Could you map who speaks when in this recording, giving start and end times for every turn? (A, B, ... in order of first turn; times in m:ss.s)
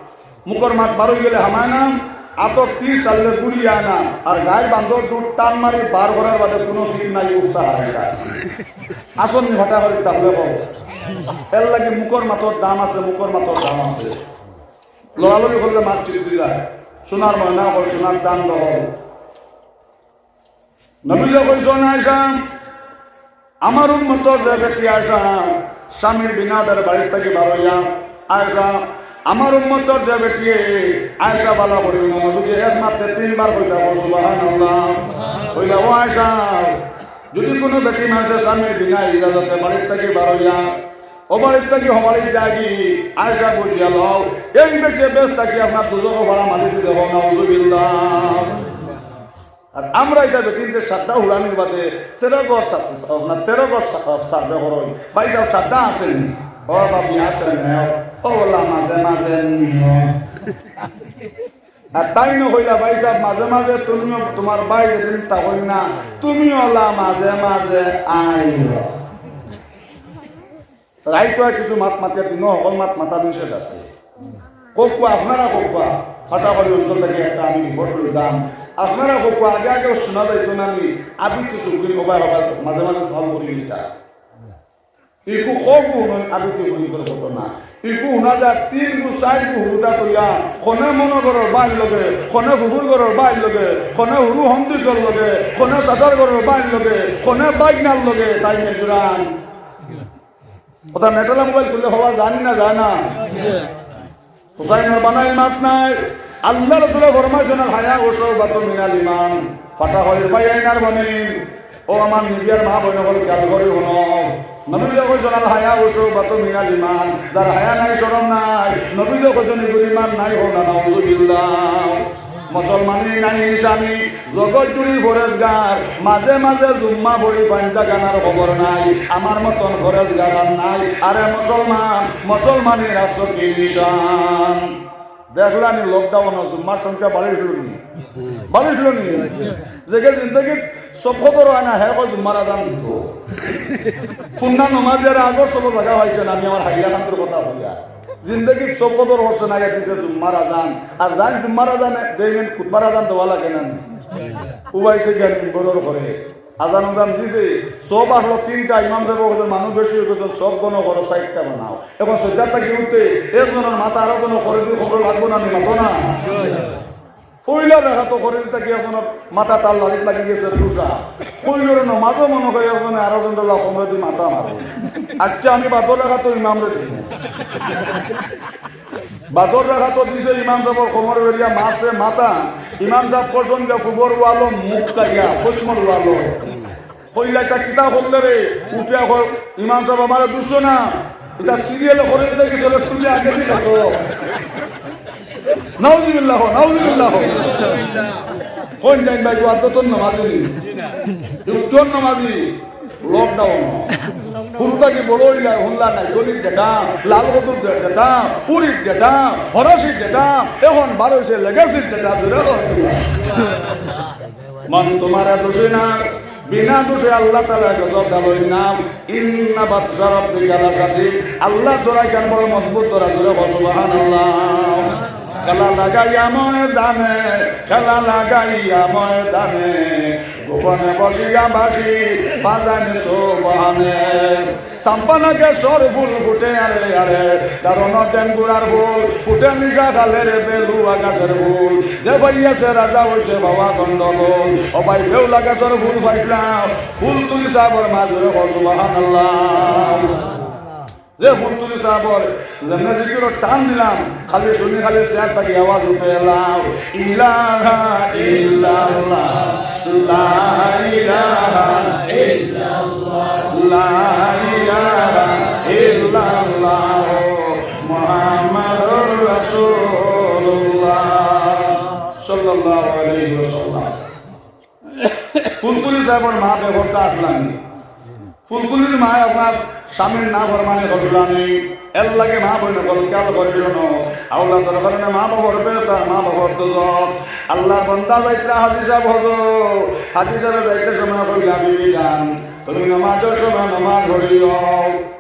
0:00.5-0:08.2 A
0:09.2-0:10.7 A
0:11.5-0:14.2 A
0:15.2-0:18.9 A
0:21.0-0:22.4 A
0:23.6-0:40.8 A
0:41.3-0:48.7 A
0:49.7-1:00.1 A
1:01.9-1:09.0 A
1:11.1-1:13.9 A
1:14.8-1:23.8 A
1:25.3-1:39.3 A
1:40.9-1:43.2 A
1:44.6-2:14.8 A
2:15.3-2:17.8 A
2:18.4-2:23.1 A
2:24.4-2:33.9 A
2:34.7-2:46.3 A
2:47.4-2:57.1 A
2:59.3-3:06.5 A
3:07.1-3:14.1 A
3:15.8-3:17.9 A
3:18.8-3:20.6 A
3:21.4-3:24.1 A
3:24.6-3:33.1 A
3:34.7-4:10.4 A
4:11.2-4:34.1 A
4:35.4-4:37.6 A
4:38.5-4:55.0 A